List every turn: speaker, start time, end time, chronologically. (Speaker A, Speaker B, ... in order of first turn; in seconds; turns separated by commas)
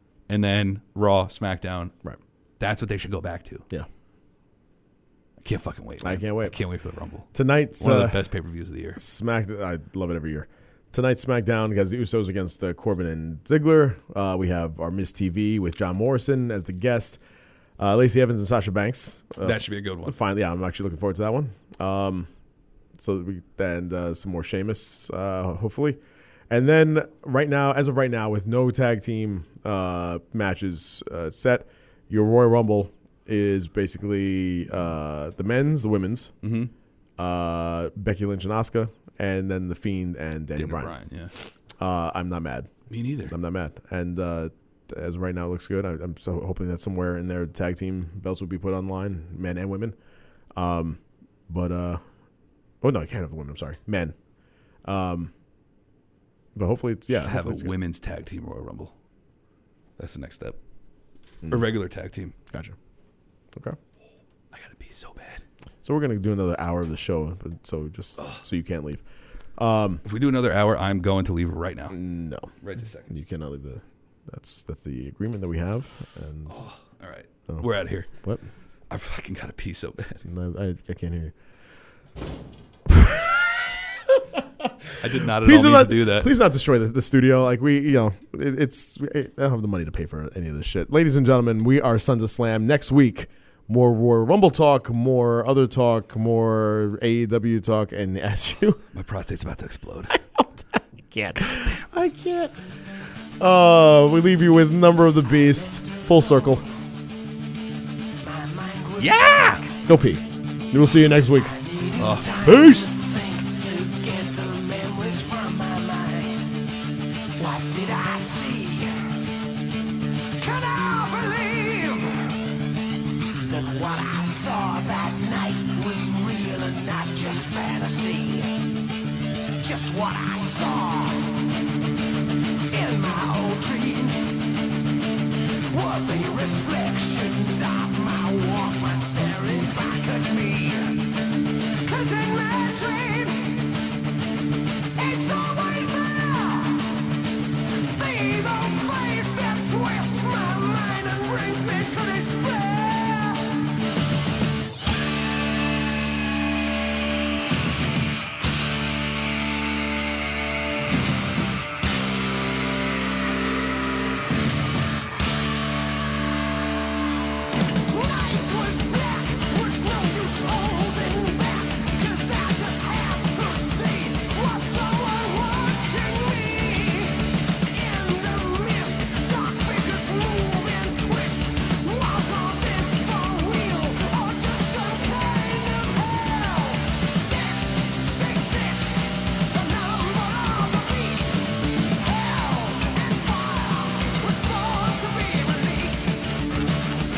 Speaker A: 0.3-1.9, Speaker A: 2.6-3.7, Speaker A: 5.4-9.0, Speaker B: 6.0-6.6, Speaker B: 7.3-8.2, Speaker B: 9.0-17.2, Speaker B: 17.8-22.3, Speaker A: 19.4-20.2, Speaker B: 23.0-26.0, Speaker B: 26.5-36.3, Speaker A: 36.4-36.7, Speaker B: 37.2-41.0, Speaker A: 40.6-41.3, Speaker B: 41.8-42.7, Speaker A: 42.9-43.3, Speaker B: 43.3-50.0, Speaker B: 50.5-52.0, Speaker B: 52.8-54.2, Speaker B: 54.8-55.3, Speaker B: 56.5-57.8, Speaker A: 57.1-58.9, Speaker A: 60.0-60.6, Speaker A: 61.5-62.3, Speaker B: 62.5-62.8, Speaker A: 64.5-65.4, Speaker B: 65.8-69.0, Speaker B: 69.6-70.0, Speaker A: 70.0-72.0, Speaker B: 71.9-72.5, Speaker A: 72.6-73.1, Speaker B: 73.0-76.6, Speaker A: 76.5-78.1, Speaker B: 77.5-78.4, Speaker A: 78.9-80.2, Speaker B: 80.2-81.3, Speaker B: 82.9-98.8, Speaker A: 85.0-86.3, Speaker A: 98.9-100.2, Speaker B: 100.1-102.6, Speaker B: 103.4-106.7, Speaker C: 105.8-106.6, Speaker C: 108.2-109.8, Speaker A: 109.0-109.7, Speaker B: 109.8-111.5, Speaker C: 111.5-116.6, Speaker A: 112.0-112.9, Speaker C: 117.4-119.1, Speaker C: 120.4-122.5, Speaker C: 123.5-128.5, Speaker C: 129.6-131.5, Speaker C: 132.7-134.3, Speaker C: 135.7-141.2, Speaker C: 141.8-143.6, Speaker C: 145.0-147.0, Speaker C: 147.9-153.6, Speaker C: 167.9-196.4